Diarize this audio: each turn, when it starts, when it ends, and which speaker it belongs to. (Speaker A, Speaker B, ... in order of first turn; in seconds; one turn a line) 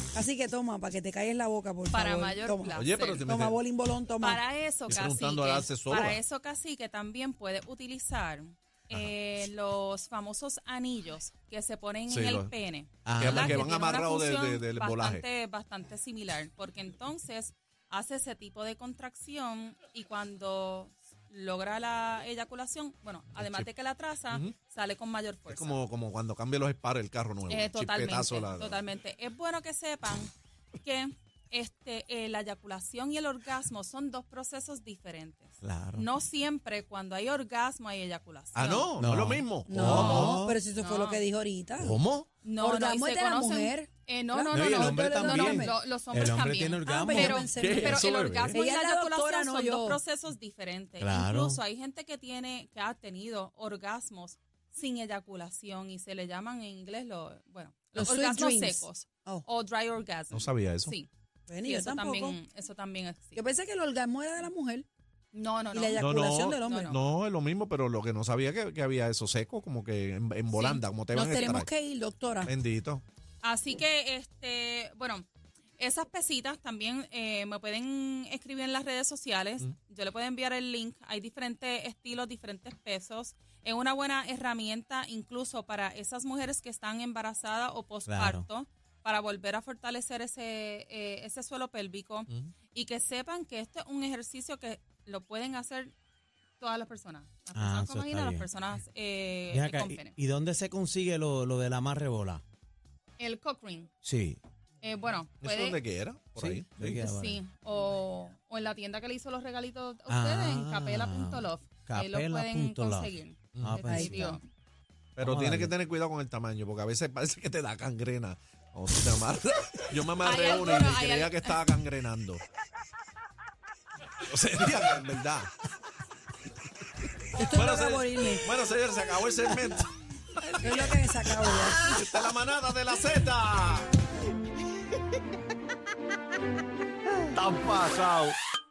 Speaker A: 0.1-4.4
Speaker B: 1.9-3.3
Speaker C: 2.7-3.6
Speaker B: 4.2-25.8
Speaker C: 4.9-6.2
Speaker C: 12.1-12.5
Speaker D: 13.0-13.7
Speaker C: 13.2-15.3
Speaker C: 23.4-23.7
Speaker C: 25.5-28.8
Speaker B: 27.5-38.9
Speaker D: 35.6-36.1
Speaker C: 38.5-40.3
Speaker D: 39.0-40.6
Speaker A: 39.7-42.0
Speaker B: 39.9-41.2
Speaker C: 41.8-42.3
Speaker B: 42.4-61.1
Speaker A: 42.6-45.8
Speaker D: 44.5-47.4
Speaker A: 46.9-50.0
Speaker C: 47.4-48.6
Speaker D: 51.0-51.6
Speaker A: 57.9-59.5
Speaker C: 60.3-60.9
Speaker A: 61.5-62.4
Speaker B: 61.6-63.5
Speaker A: 63.4-64.9
Speaker B: 65.3-67.0
Speaker A: 65.7-67.0
Speaker C: 66.0-71.7
Speaker B: 70.5-70.8
Speaker A: 71.1-72.5
Speaker B: 71.3-71.7
Speaker C: 72.4-73.0
Speaker B: 73.4-75.3
Speaker B: 75.8-95.9
Speaker D: 88.1-88.4
Speaker B: 96.6-100.1
Speaker D: 97.5-98.5
Speaker D: 99.5-102.4
Speaker B: 103.2-103.9
Speaker D: 104.0-104.4
Speaker B: 104.8-105.8
Speaker C: 105.4-107.0
Speaker D: 106.3-107.4
Speaker B: 106.8-114.4
Speaker D: 110.1-114.4
Speaker C: 113.5-113.8
Speaker A: 113.8-114.4
Speaker C: 115.2-122.4
Speaker D: 115.2-115.7
Speaker B: 120.2-121.6
Speaker C: 124.2-125.5
Speaker A: 127.3-128.5
Speaker C: 127.4-133.9
Speaker A: 130.6-131.9
Speaker C: 137.3-138.3